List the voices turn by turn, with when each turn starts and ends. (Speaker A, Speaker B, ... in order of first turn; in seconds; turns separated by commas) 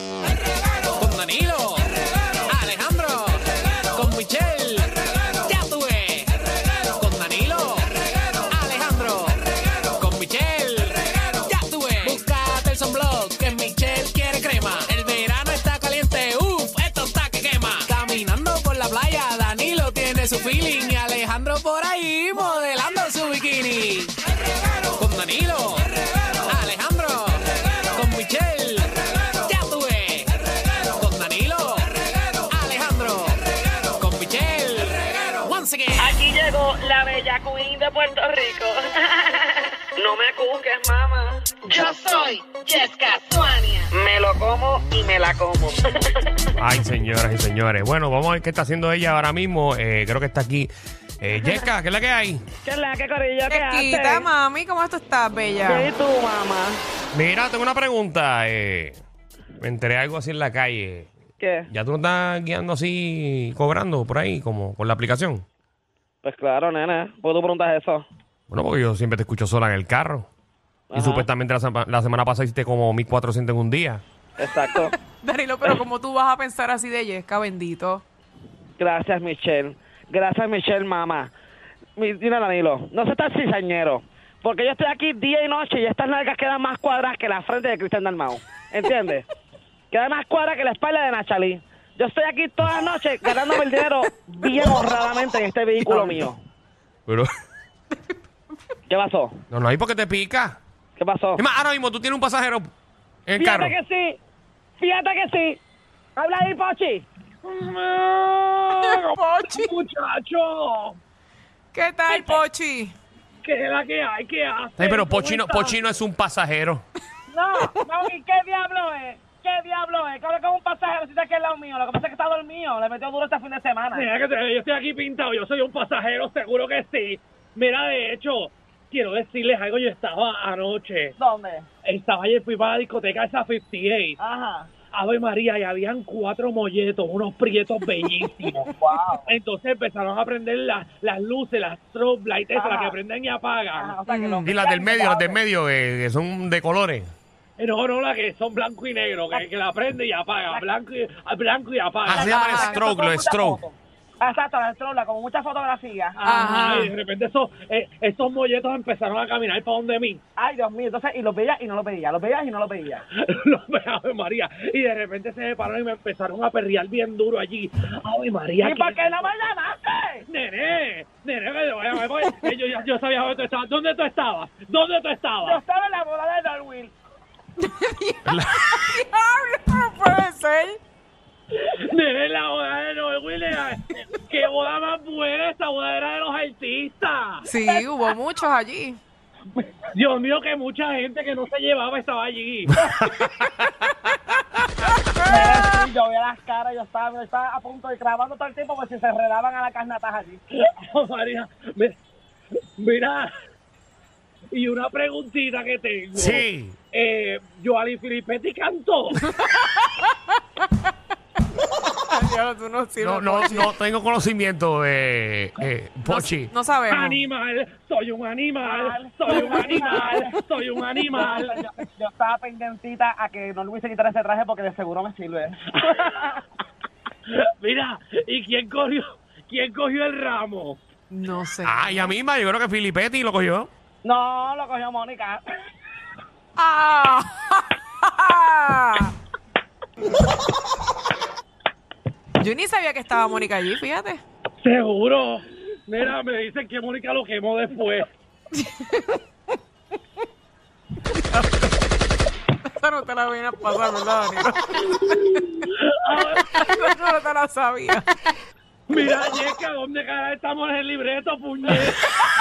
Speaker A: 1.0-1.9, Speaker A: 2.5-6.3, Speaker A: 6.9-24.1, Speaker A: 24.9-25.9, Speaker A: 26.4-28.9, Speaker A: 29.4-30.3, Speaker A: 30.9-31.9, Speaker A: 32.5-33.4, Speaker A: 34.0-36.1, Speaker B: 36.0-46.4, Speaker C: 46.6-52.5, Speaker B: 52.6-54.3, Speaker D: 53.5-55.9, Speaker B: 55.6-56.8, Speaker C: 57.1-59.0, Speaker C: 59.6-61.1, Speaker B: 61.4-61.7, Speaker C: 61.7-65.4, Speaker B: 66.2-68.0, Speaker C: 68.5-70.3, Speaker B: 70.9-71.3, Speaker C: 70.9-74.0, Speaker B: 74.4-74.9, Speaker D: 74.8-78.0, Speaker B: 78.8-81.3, Speaker B: 82.0-89.2, Speaker B: 89.9-96.4, Speaker C: 95.8-96.3, Speaker C: 97.1-97.3, Speaker B: 98.9-99.4, Speaker C: 99.5-100.6, Speaker B: 101.0-101.4, Speaker C: 101.4-102.7, Speaker C: 103.3-103.8, Speaker B: 103.3-104.2, Speaker B: 104.8-105.6, Speaker B: 106.2-107.0, Speaker E: 107.4-111.0, Speaker D: 108.8-109.7, Speaker D: 111.7-112.9, Speaker E: 112.1-112.4, Speaker E: 113.4-115.8, Speaker C: 114.8-116.8, Speaker B: 117.3-124.0, Speaker E: 123.9-131.1, Speaker B: 131.2-131.7, Speaker E: 131.8-134.2, Speaker B: 134.2-134.7, Speaker E: 134.9-138.7, Speaker B: 138.7-139.3, Speaker E: 139.2-144.0, Speaker B: 142.5-143.0, Speaker B: 143.7-145.4, Speaker D: 144.1-144.5, Speaker C: 144.4-147.1, Speaker E: 147.6-152.7, Speaker C: 152.1-153.6, Speaker B: 152.1-156.8, Speaker D: 152.3-152.7, Speaker E: 156.2-160.2, Speaker D: 156.2-156.9, Speaker B: 160.3-163.0, Speaker E: 163.1-169.3, Speaker B: 168.6-170.2, Speaker E: 170.2-175.6, Speaker B: 175.4-176.9, Speaker D: 177.6-180.8, Speaker C: 178.3-178.6, Speaker E: 181.5-187.5, Speaker D: 187.4-189.0, Speaker E: 189.9-192.8, Speaker C: 192.9-193.5, Speaker B: 195.2-200.4, Speaker D: 195.2-195.7, Speaker E: 200.5-202.0, Speaker E: 202.8-203.3, Speaker E: 204.5-209.2, Speaker C: 206.1-206.8, Speaker D: 209.2-210.1, Speaker D: 212.1-213.7, Speaker C: 213.0-216.5, Speaker D: 216.0-217.2, Speaker E: 216.8-221.6, Speaker B: 218.6-220.4, Speaker D: 219.3-219.7, Speaker B: 221.1-226.4, Speaker E: 227.3-230.8, Speaker D: 231.1-232.0, Speaker C: 231.6-233.7, Speaker B: 234.0-235.4, Speaker D: 236.6-239.1, Speaker D: 242.4-244.2, Speaker E: 244.6-248.1, Speaker D: 248.5-249.2, Speaker D: 251.1-251.8, Speaker D: 252.6-255.7, Speaker E: 255.4-256.8, Speaker D: 256.4-258.1, Speaker E: 258.9-262.1